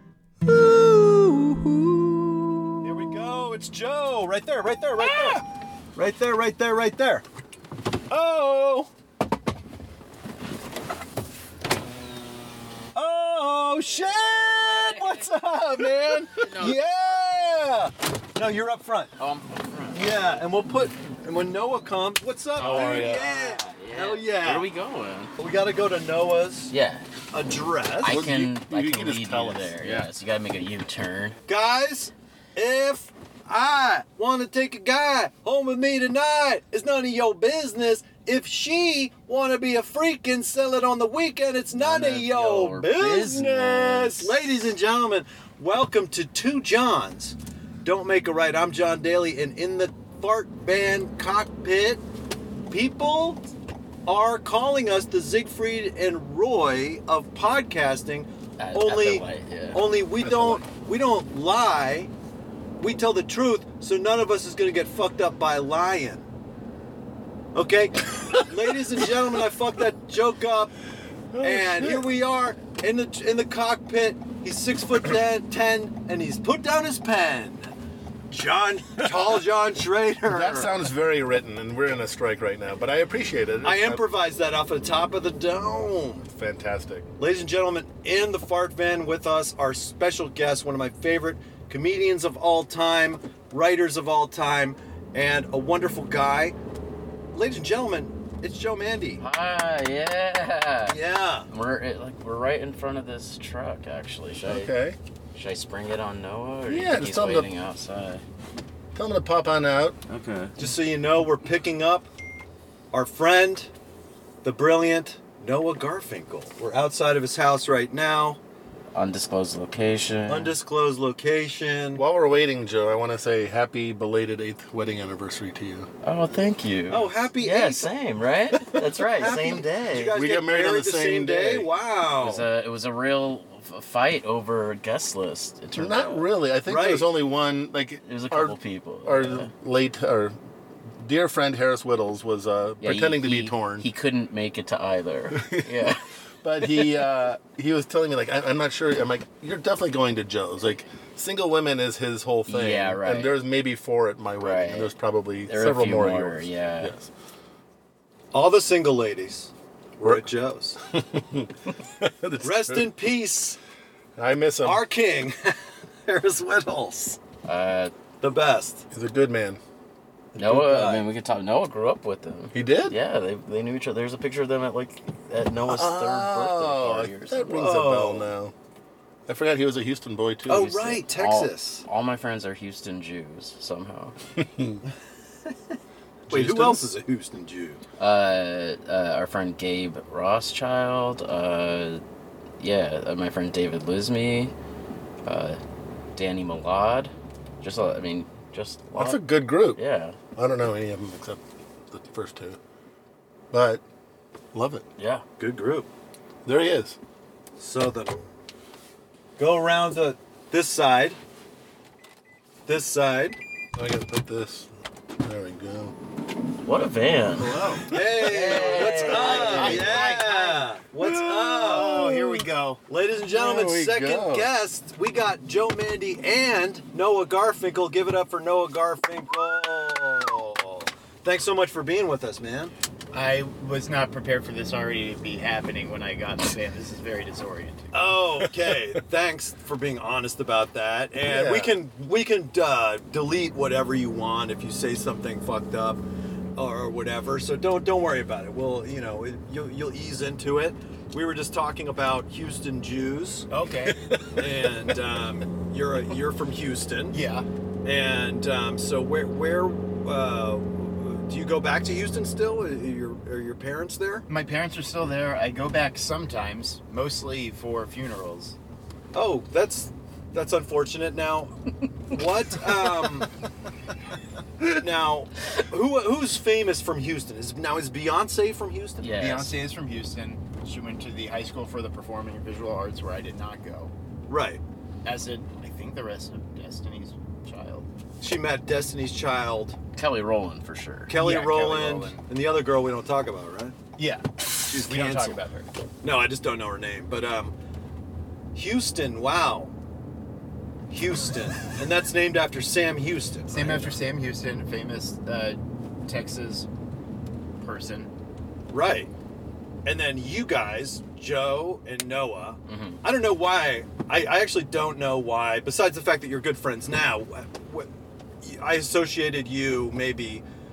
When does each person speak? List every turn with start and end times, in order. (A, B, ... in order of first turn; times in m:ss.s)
0:00.4-0:02.9 A
0:02.8-0:05.4 B
0:06.0-0:07.2 B
0:08.1-0:08.9 B
0:13.0-0:19.2 B
0:14.6-0:15.3 C
0:16.4-0:17.2 C
0:19.2-0:20.5 C
0:19.9-0:24.7 B
0:22.6-0:25.3 C
0:22.6-0:23.2 D
0:25.4-0:26.7 B
0:26.7-0:27.0 C
0:27.3-0:28.2 B
0:28.0-0:31.4 C
0:28.0-0:30.1 D
0:31.5-0:52.0 B
0:41.7-0:44.4 C
0:52.7-0:53.4 B
0:54.1-1:02.1 B
0:58.6-0:59.8 C
1:00.2-1:00.6 D
1:02.8-1:06.3 B
1:07.6-1:10.7 B
1:11.3-1:12.1 D
1:11.4-1:17.7 B
1:18.3-1:20.8 B
1:20.3-1:24.0 D
1:23.6-1:26.3 B
1:26.3-1:27.1 D
1:27.2-1:36.6 B
1:37.3-1:39.2 B
1:39.2-1:41.0 C
1:40.9-1:41.5 B
1:41.5-1:44.7 C
1:44.5-1:45.0 D
1:45.4-1:48.2 C
1:46.7-1:47.5 D
1:49.0-1:50.0 D
1:50.1-1:50.6 C
1:50.6-1:52.1 B
1:52.9-1:53.7 B
1:54.4-1:58.4 B
1:58.9-2:00.6 C
2:00.3-2:02.0 B
2:01.9-2:05.9 D
2:06.0-2:10.2 C
2:06.9-2:07.9 B
2:08.8-2:09.4 D
2:09.2-2:12.5 B
2:10.0-2:11.7 D
2:12.2-2:16.3 C
2:15.8-2:20.4 D
2:16.7-2:17.1 B
2:18.0-2:19.5 C
2:21.0-2:23.9 D
2:22.8-2:26.0 C
2:25.3-2:37.1 D
2:32.5-2:33.4 C
2:34.4-2:34.9 C
2:35.5-2:37.0 C
2:38.3-2:40.8 B
2:40.0-2:40.3 D
2:40.9-2:42.9 D
2:42.4-2:43.6 B
2:44.2-2:44.8 D
2:44.6-2:47.2 B
2:47.4-2:47.9 C
2:48.2-2:48.8 B
2:48.9-2:49.6 D
2:50.3-2:51.1 B
2:50.4-2:57.7 C
2:52.5-2:53.0 D
2:55.7-2:58.5 D
2:57.6-2:58.3 B
2:59.3-3:00.8 D
3:00.5-3:01.9 B
3:00.5-3:04.1 C
3:04.4-3:04.8 D
3:06.3-3:06.9 D
3:06.3-3:07.8 B
3:08.0-3:12.0 C
3:12.6-3:14.5 C
3:15.2-3:15.6 C
3:16.2-3:20.2 C
3:19.0-3:19.8 D
3:20.4-3:22.6 D
3:23.5-3:23.8 D
3:24.5-3:24.9 D
3:25.0-3:25.2 C
3:25.4-3:25.9 B
3:26.4-3:27.0 D
3:27.6-3:28.3 B
3:29.4-3:31.2 B
3:32.7-3:33.4 B
3:33.8-3:34.7 D
3:35.2-3:35.9 D
3:36.6-3:40.1 C
3:37.4-3:42.0 B
3:38.4-3:40.8 E
3:41.0-3:42.5 D
3:41.5-3:42.8 E
3:42.9-3:52.7 B
3:43.3-3:44.5 D
3:53.1-3:58.0 E
3:57.9-4:06.0 B
4:01.2-4:01.8 D
4:06.6-4:13.5 B
4:13.5-4:14.2 E
4:14.3-4:17.2 B
4:17.1-4:17.5 E
4:17.8-4:24.3 B
4:24.3-4:28.6 E
4:29.1-4:33.3 B
4:34.7-4:39.2 B
4:39.0-4:39.6 C
4:39.0-4:43.9 E
4:44.3-4:44.6 B
4:45.0-4:47.9 E
4:48.2-4:49.8 B
4:50.0-4:51.1 C
4:51.1-4:53.8 B
4:51.1-4:52.3 E
4:54.0-4:55.7 E
4:54.7-4:55.4 B
4:56.0-4:57.6 B
4:58.5-4:59.7 B
5:00.9-5:04.0 B
5:03.5-5:06.7 E
5:07.6-5:08.1 E
5:08.7-5:09.1 B
5:09.8-5:17.9 B
5:12.7-5:13.0 C
5:18.4-5:20.4 B